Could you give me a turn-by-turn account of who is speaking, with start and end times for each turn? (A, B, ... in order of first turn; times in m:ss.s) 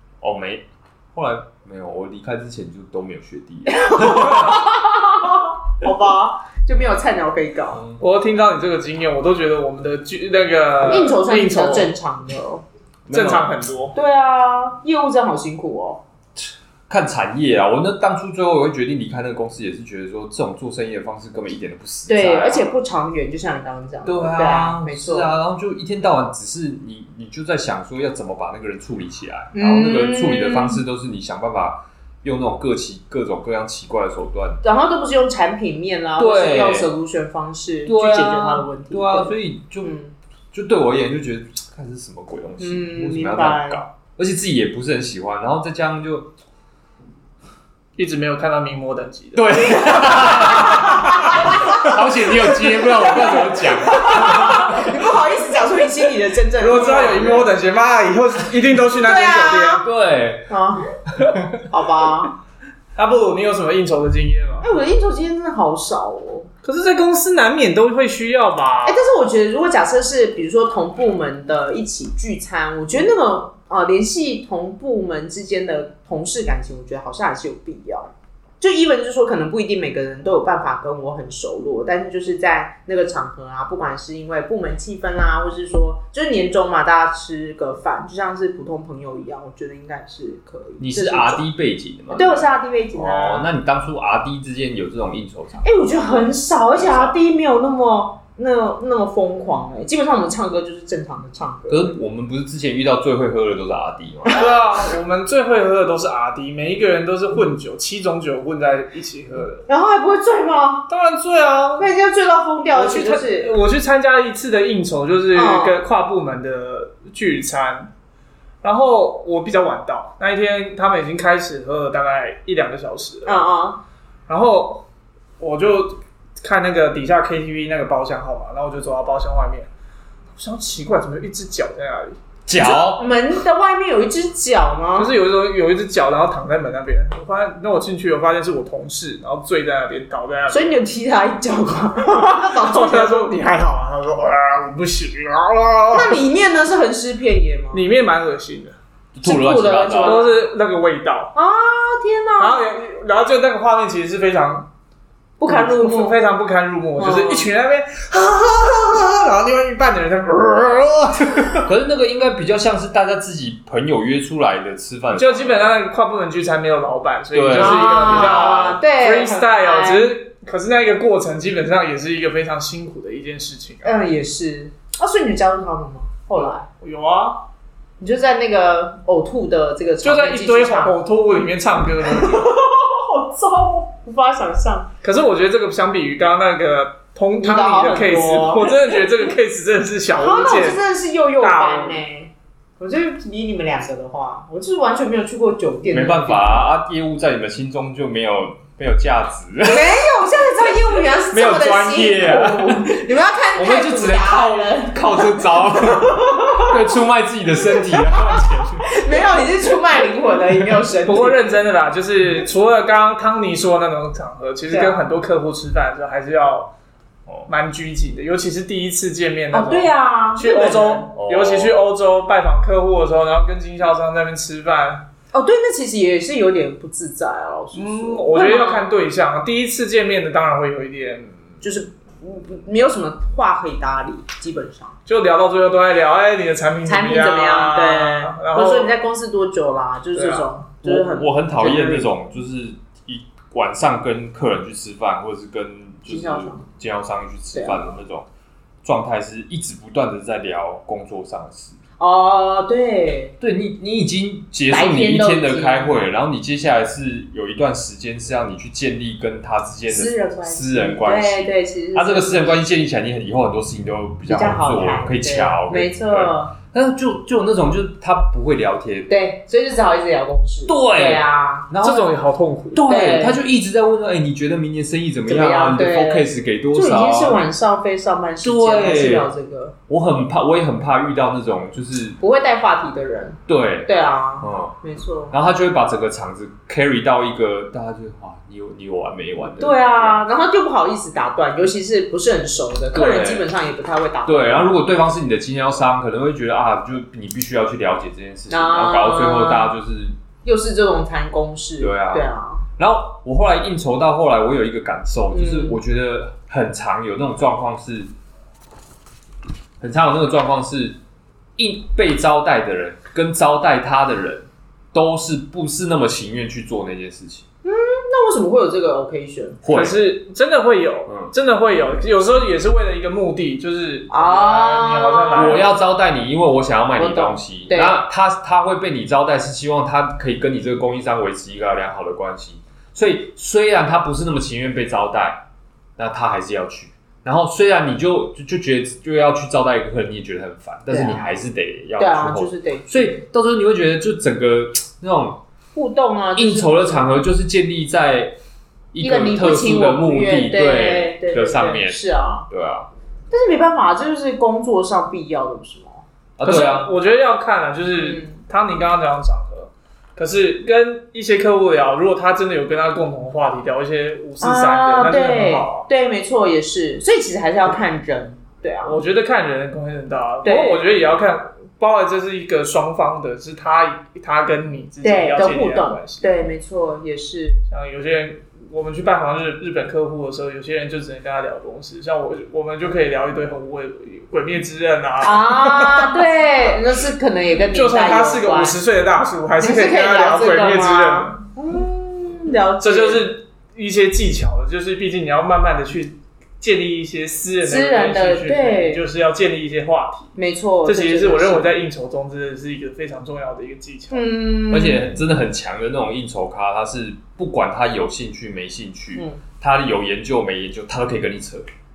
0:00.2-0:04.6 A
0:03.7-0:07.8 B
0:07.7-0:08.0 A
0:08.0-0:11.9 C
0:10.8-0:12.6 B
0:13.1-0:13.5 A
0:13.1-0:13.9 C
0:13.9-0:16.0 B
0:16.4-0:22.7 A
0:22.1-0:25.3 B
0:24.0-0:34.6 A
0:29.5-0:30.8 B
0:34.6-0:40.1 B
0:36.2-0:36.9 A
0:37.8-0:39.9 A
0:40.5-0:46.3 A
0:42.6-0:43.8 B
0:48.0-0:49.8 C
0:49.3-0:54.9 A
0:50.3-0:51.7 B
0:52.8-0:57.5 B
0:56.6-0:59.8 C
0:58.9-0:59.8 B
0:59.8-1:00.5 A
1:00.5-1:00.9 B
1:01.2-1:01.5 A
1:01.6-1:02.3 B
1:03.0-1:04.7 C
1:04.6-1:06.5 B
1:06.6-1:09.0 C
1:08.8-1:31.4 B
1:30.8-1:35.9 A
1:32.1-1:33.5 B
1:35.6-1:41.9 B
1:36.7-1:37.1 A
1:41.7-1:44.4 A
1:44.3-1:49.6 C
1:49.7-1:50.9 B
1:50.9-1:51.9 C
1:51.8-1:53.5 B
1:52.7-1:57.9 C
1:55.3-1:55.8 B
1:58.6-2:03.4 C
2:03.2-2:03.8 B
2:04.3-2:04.8 C
2:05.4-2:09.7 C
2:10.4-2:12.2 C
2:12.5-2:13.0 A
2:12.6-2:15.1 B
2:15.0-2:20.8 C
2:20.5-2:23.3 B
2:22.1-2:26.2 C
2:25.9-2:27.8 B
2:27.7-2:28.8 C
2:29.1-2:30.2 A
2:29.2-2:30.4 B
2:30.0-2:31.3 C
2:31.3-2:32.7 B
2:32.4-2:34.7 C
2:35.4-2:36.2 B
2:35.4-2:41.6 C
2:37.0-2:37.5 B
2:41.6-2:45.7 A
2:45.1-2:53.9 C
2:47.3-2:48.6 A
2:47.5-2:50.1 B
2:53.8-2:56.6 B
2:56.4-2:57.4 C
2:58.0-3:01.0 B
3:00.0-3:02.5 C
3:02.0-3:04.9 B
3:05.0-3:10.8 C
3:07.4-3:09.0 B
3:10.1-3:16.6 B
3:11.4-3:12.0 C
3:15.9-3:19.9 A
3:19.6-3:26.8 B
3:21.3-3:23.0 A
3:23.5-3:29.0 A
3:28.0-3:28.3 B
3:28.8-3:31.4 B
3:31.0-3:36.7 C
3:34.7-3:35.0 B
3:37.5-3:45.0 C
3:39.5-3:41.0 B
3:41.1-3:41.8 A
3:45.3-3:48.9 B
3:47.7-3:51.5 C
3:51.6-3:54.9 B
3:55.1-3:58.9 C
3:56.8-4:02.1 B
4:00.1-4:00.5 C
4:00.8-4:08.3 A
4:06.1-4:06.6 B
4:07.5-4:07.8 B
4:08.8-4:11.8 A
4:12.0-4:13.3 B
4:13.4-4:29.1 A
4:14.7-4:16.0 B
4:19.9-4:22.8 B
4:24.2-4:26.5 B
4:29.1-4:31.7 B
4:30.7-4:32.1 A
4:31.8-4:32.8 C
4:32.7-4:37.4 A
4:32.8-4:33.4 B
4:35.2-4:39.7 B
4:38.4-4:39.3 A
4:39.9-4:42.2 A
4:42.2-4:45.3 B
4:43.5-4:44.8 A
4:45.3-4:50.2 A
4:49.6-4:54.7 B
4:52.9-4:53.5 A
4:54.2-5:00.2 A
4:58.5-4:59.8 B
5:00.4-5:02.6 B
5:01.8-5:08.1 A
5:05.3-5:05.8 B
5:09.8-5:11.0 A
5:11.6-5:17.4 A
5:17.6-5:19.6 B
5:19.6-5:20.0 A
5:19.7-5:25.7 C
5:21.1-5:21.3 A
5:24.1-5:25.6 B
5:25.3-5:35.4 A
5:27.0-5:28.0 B
5:36.0-5:45.4 A
5:40.9-5:41.4 B
5:42.0-5:43.1 B
5:45.7-5:47.1 B
5:46.4-5:48.4 A
5:48.9-5:52.9 A
5:49.0-5:52.5 B
5:53.3-5:56.0 B
5:56.4-5:56.9 A
5:56.4-6:05.9 C
5:58.0-5:58.4 B
6:04.4-6:09.0 B
6:08.8-6:16.3 C
6:10.4-6:10.9 B
6:15.0-6:17.6 B
6:17.7-6:26.3 C
6:25.2-6:28.8 B
6:27.7-6:31.4 C
6:29.6-6:33.3 B
6:32.8-6:44.2 C
6:37.6-6:39.0 B
6:40.3-6:41.8 B
6:44.1-6:45.0 B
6:44.7-6:51.7 A
6:49.1-6:49.4 B